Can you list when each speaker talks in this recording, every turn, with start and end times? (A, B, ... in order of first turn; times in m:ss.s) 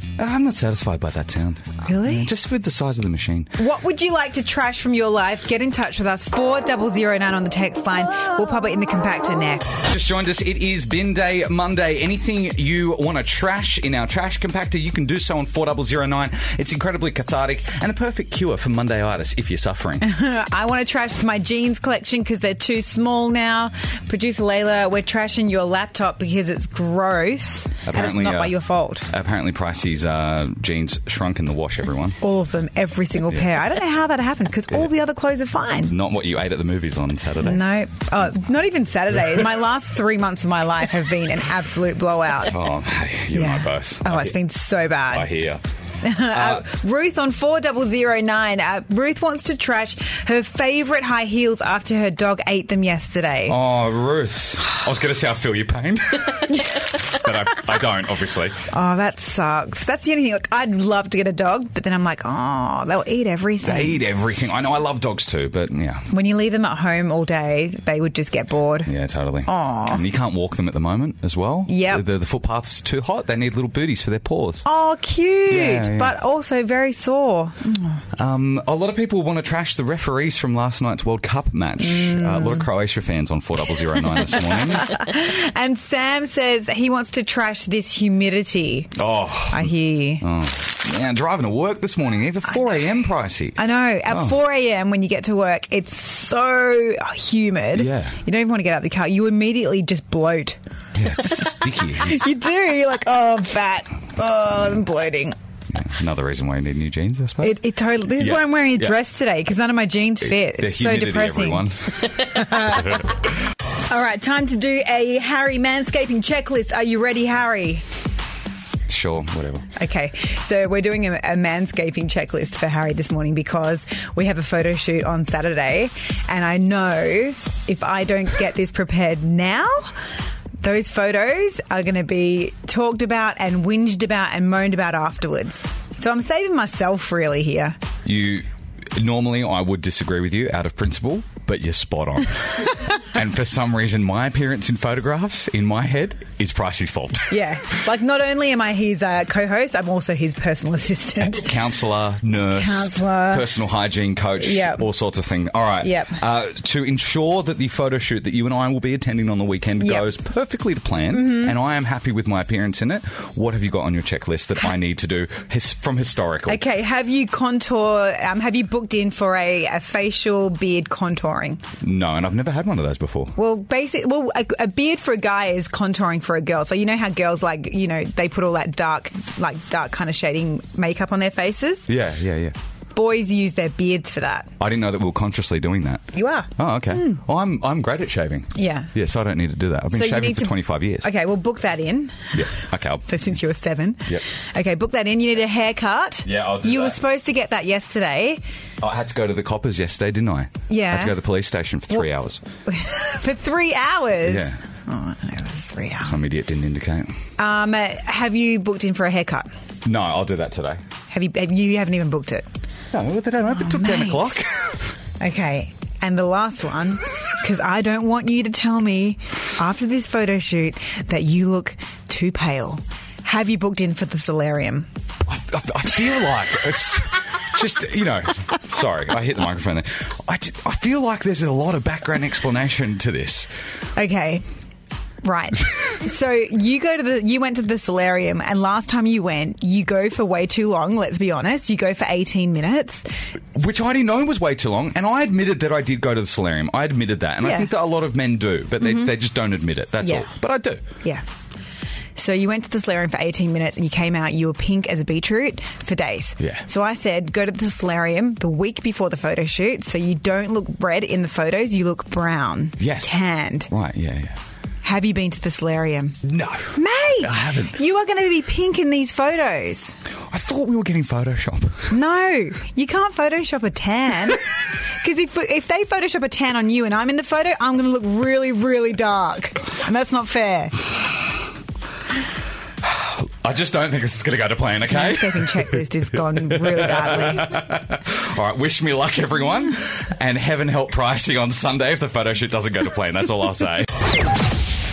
0:00.2-0:03.6 A
0:01.8-0:02.3 B
0:03.6-0:09.7 B
0:09.8-0:20.0 A
0:20.0-0:29.1 B
0:27.8-0:28.6 A
0:29.1-0:32.2 A
0:32.2-0:36.0 B
0:35.9-0:37.6 A
0:37.4-0:42.6 B
0:42.4-0:44.4 A
0:43.3-0:45.3 B
0:45.1-0:45.6 A
0:46.0-0:53.6 B
0:46.2-0:46.6 A
0:53.5-0:58.6 A
0:58.7-1:04.0 B
1:03.6-1:06.1 A
1:06.1-1:08.9 B
1:08.8-1:14.6 A
1:09.5-1:10.0 B
1:11.7-1:12.0 B
1:14.6-1:18.0 B
1:15.5-1:16.2 A
1:18.2-1:25.0 A
1:21.8-1:22.7 B
1:24.2-1:28.9 B
1:29.0-1:34.4 A
1:29.5-1:30.2 B
1:33.6-1:40.6 B
1:37.8-1:38.2 A
1:41.0-1:42.3 A
1:42.0-1:45.4 B
1:45.7-1:47.6 A
1:47.4-1:53.1 B
1:48.2-1:49.0 A
1:50.4-1:53.1 A
1:53.9-1:57.8 B
1:58.9-1:59.7 A
1:59.8-2:09.9 B
2:10.6-2:17.8 B
2:18.0-2:27.4 A
2:27.3-2:31.5 B
2:31.2-2:46.6 A
2:32.5-2:33.5 B
2:34.4-2:34.8 B
2:35.8-2:36.2 B
2:39.8-2:40.1 B
2:41.1-2:41.6 B
2:46.5-2:51.6 B
2:51.8-2:53.4 A
2:53.4-3:01.9 B
3:01.9-3:02.6 A
3:03.0-3:04.5 B
3:04.6-3:11.1 A
3:06.1-3:07.2 B
3:08.6-3:08.9 B
3:09.9-3:18.4 B
3:12.3-3:13.1 A
3:16.2-3:17.0 A
3:18.8-3:22.4 A
3:20.7-3:21.2 B
3:22.7-3:26.2 B
3:24.2-3:24.6 A
3:26.0-3:27.2 A
3:27.4-3:29.5 B
3:29.8-3:30.8 A
3:31.1-3:32.5 B
3:32.9-3:34.6 A
3:33.5-3:34.4 B
3:35.2-3:44.9 B
3:45.2-3:53.5 A
3:54.0-3:54.4 B
3:55.2-4:03.3 B
4:03.6-4:10.8 A
4:07.4-4:07.7 B
4:08.8-4:09.1 B
4:10.0-4:10.3 B
4:12.2-4:23.7 B
4:16.4-4:16.6 A
4:22.8-4:23.2 A
4:23.7-4:24.4 A
4:24.8-4:26.2 B
4:26.2-4:27.8 A
4:26.7-4:30.0 B
4:30.3-4:31.9 A
4:31.9-4:40.8 B
4:42.8-4:54.1 A
4:44.8-4:47.6 B